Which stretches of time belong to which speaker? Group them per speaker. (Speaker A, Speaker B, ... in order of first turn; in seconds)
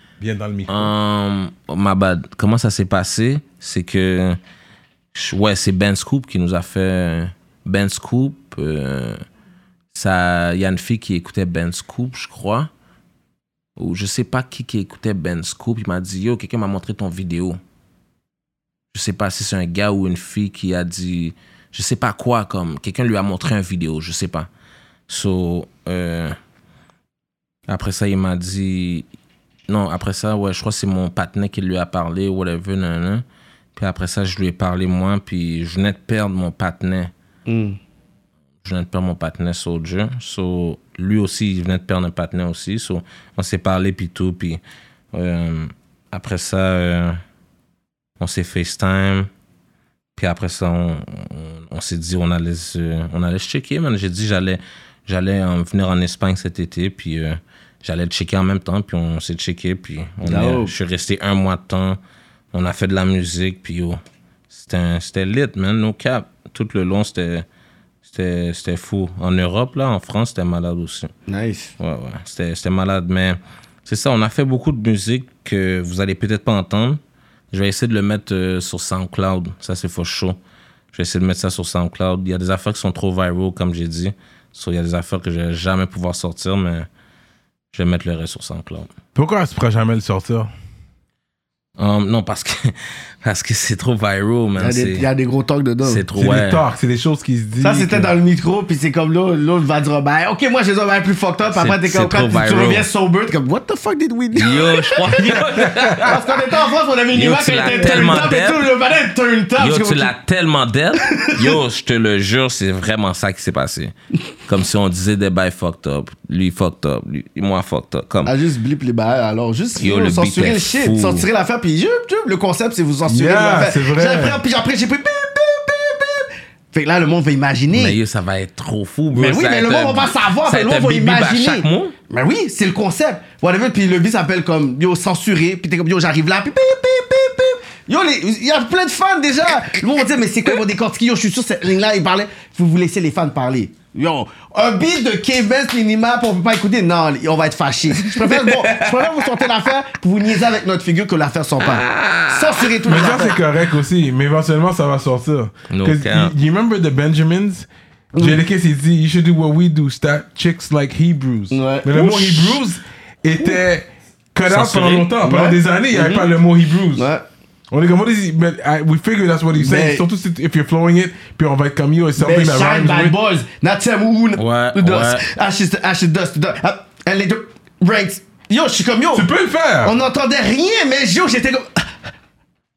Speaker A: 0.2-0.9, 89.1-90.5, 96.2-98.1, 105.5-106.1, 123.0-124.4, 152.9-167.1, 167.7-173.1, 179.1-179.9
Speaker B: 0.7-4.4, 5.1-9.2, 9.9-12.7, 13.8-17.6, 18.9-24.5, 25.1-26.4, 27.7-29.1, 29.7-37.1, 38.6-44.6, 45.1-47.2, 48.2-49.3, 50.1-62.0, 62.5-64.0, 64.5-67.4, 68.0-71.1, 71.8-77.0, 77.5-80.4, 80.9-86.9, 87.7-88.9, 91.8-95.1, 95.8-96.6, 101.5-102.8, 104.3-106.2, 107.1-108.7, 109.6-113.9, 114.5-118.3, 119.8-121.3, 127.7-131.9, 147.9-149.4, 151.6-152.8, 155.7-156.3, 164.4-165.1, 174.4-175.2
Speaker C: 37.5-37.8, 60.2-60.7, 71.3-71.7, 94.6-96.0, 97.6-105.4, 106.0-110.1, 111.0-111.6, 118.2-128.0, 129.1-153.4, 161.5-162.6, 165.2-166.3, 166.9-167.2, 169.6-170.0, 172.2-179.3, 179.8-181.9